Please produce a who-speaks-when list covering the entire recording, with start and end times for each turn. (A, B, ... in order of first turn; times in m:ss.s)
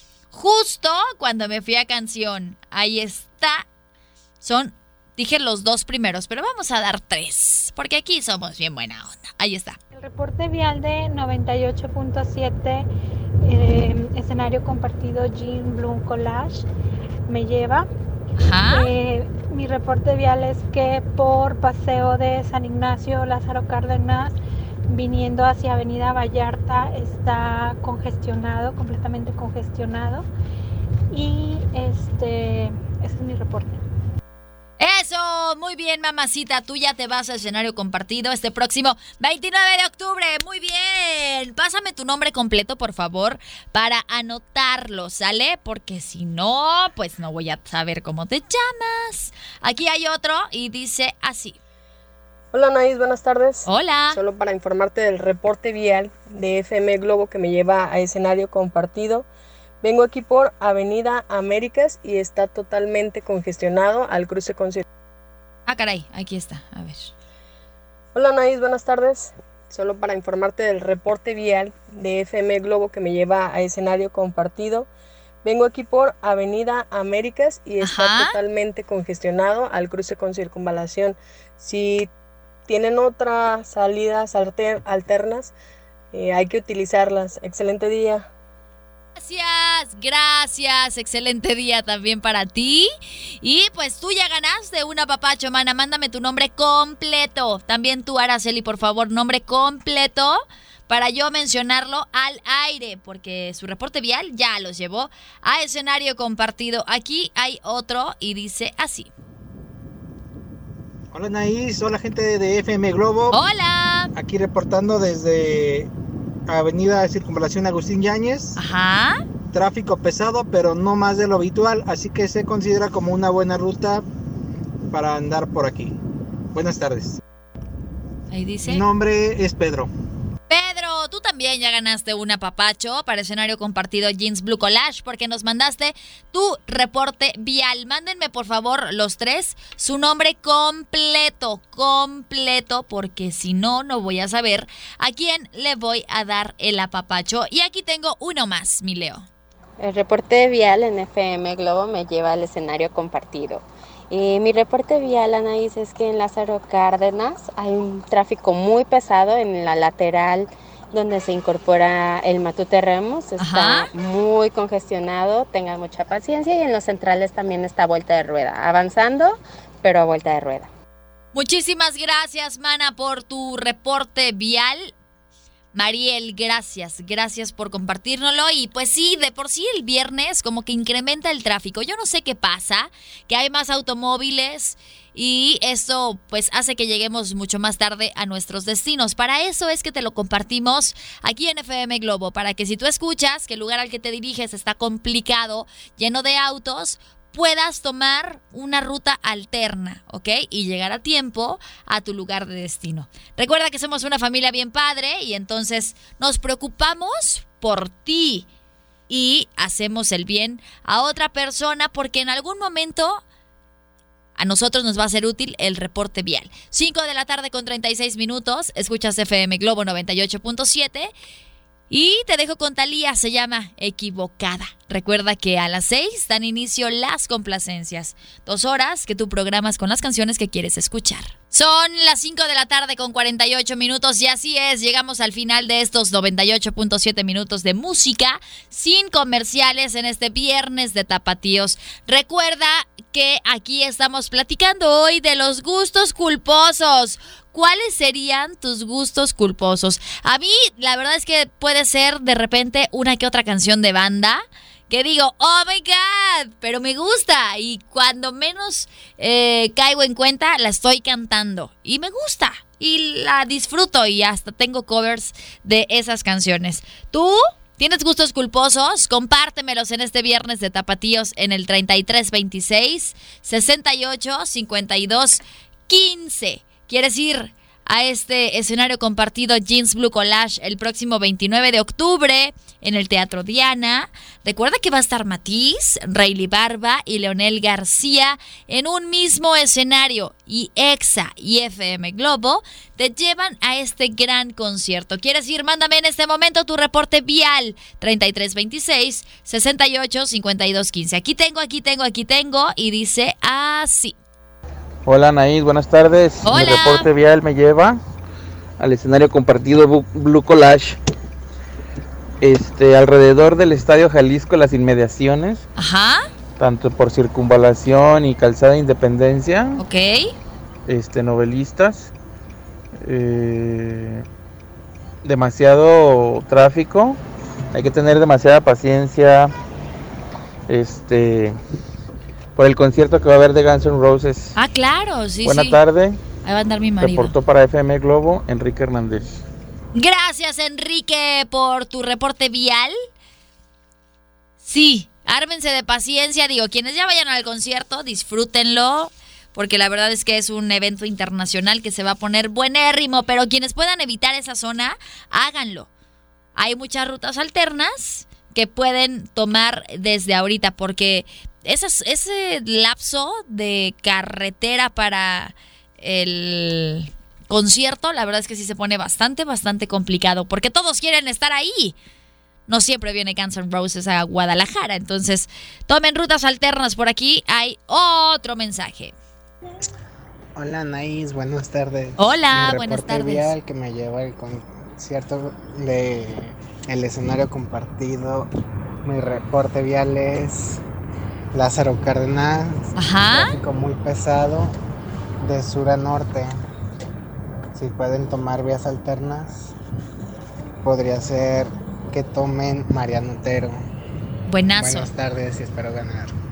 0:00.3-0:03.6 A
0:04.4-0:09.8 A
0:09.9-0:12.9 B
0:13.4-0:16.6 B
0:17.3-0:17.9 B
0:18.4-0:18.9 A
0:18.7-0:24.3 B
0:24.9-0:30.3 B
0:31.1-0:33.8 B
0:34.8-0:51.6 A
0:52.5-0:59.3 C
0:53.6-0:54.2 A
0:59.8-1:04.8 C
1:05.7-1:07.1 A
1:08.1-1:14.9 C
1:15.4-1:22.1 C
1:17.8-1:18.4 A
1:22.7-1:25.5 C
1:26.1-1:28.3 C
1:29.2-1:32.9 A
1:33.4-1:49.1 A
1:51.1-1:53.4 D
1:53.3-1:54.1 A
1:54.1-1:55.9 D
1:56.5-1:58.6 D
1:58.6-1:59.2 A
1:59.5-2:04.0 D
2:04.9-2:06.0 D
2:06.5-2:07.2 D
2:08.3-2:08.8 A
2:08.6-2:09.9 D
2:10.5-2:29.3 A
2:29.8-2:50.7 E
2:43.4-2:43.9 A
2:51.3-2:54.9 A
2:55.7-3:28.5 A
3:29.1-3:33.2 A
3:34.4-3:41.1 A
3:41.9-5:04.2 A
5:05.0-5:08.0 F
5:06.4-5:07.1 A
5:08.8-5:11.0 F
5:12.4-5:15.6 F
5:15.8-5:16.3 A
5:16.6-5:19.8 F
5:19.8-5:20.3 A
5:20.9-5:22.1 F
5:23.0-5:24.2 F
5:25.2-5:27.2 F
5:27.7-5:29.5 F
5:30.7-5:31.5 F
5:32.6-5:34.5 F
5:34.5-5:35.8 A
5:35.4-5:36.2 F
5:36.4-5:37.3 A
5:37.0-5:39.4 F
5:39.9-5:42.9 A
5:44.6-5:55.9 A
5:56.6-6:12.0 A
6:12.7-6:19.1 A
6:20.6-6:28.5 G
6:22.2-6:23.5 A
6:29.0-6:30.8 G
6:31.5-6:34.7 G
6:33.0-6:33.6 A
6:35.4-6:36.6 G
6:37.7-6:39.7 G
6:40.8-6:43.8 G
6:44.5-6:45.1 A
6:44.8-6:46.3 G